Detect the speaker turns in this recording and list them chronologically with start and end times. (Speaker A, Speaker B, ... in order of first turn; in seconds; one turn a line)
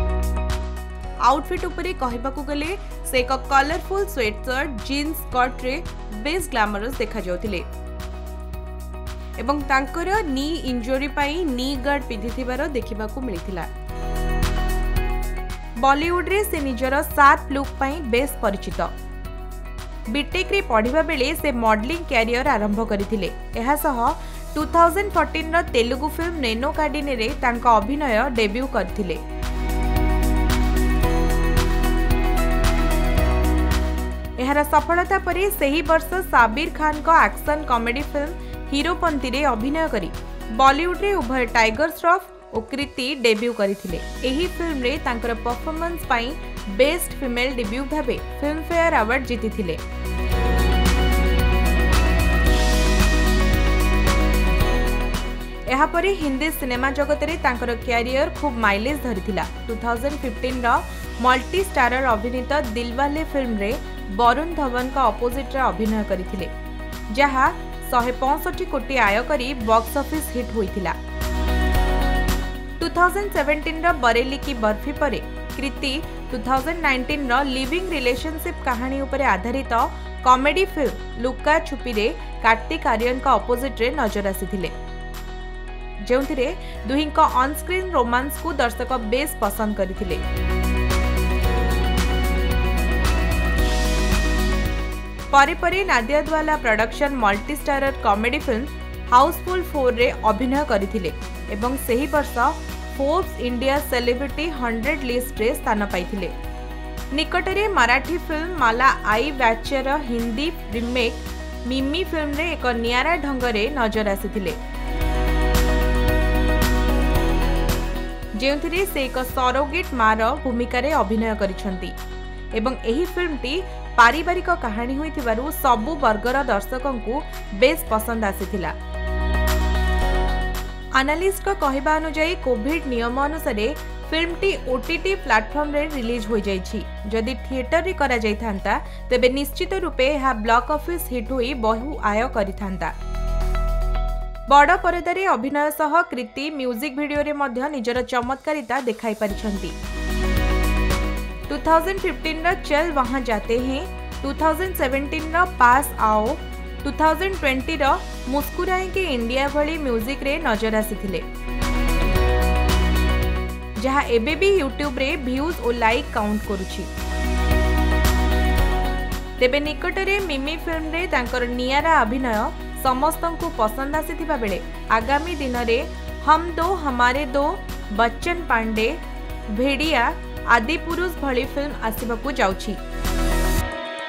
Speaker A: 1.2-7.7
Speaker A: 9.4-13.7
Speaker A: 15.8-18.9
Speaker A: 20.1-29.2
Speaker A: 34.4-49.8
Speaker A: 55.7-66.5
Speaker A: 67.1-71.0
Speaker A: 72.8-84.7
Speaker A: 86.0-90.2
Speaker A: 95.3-106.3
Speaker A: 107.1-114.6
Speaker A: 118.3-121.9
Speaker A: 122.5-128.7
Speaker A: 130.9-142.9
Speaker A: 144.5-149.8
Speaker A: 151.5-161.2
Speaker A: 163.8-166.9
Speaker A: 169.4-182.8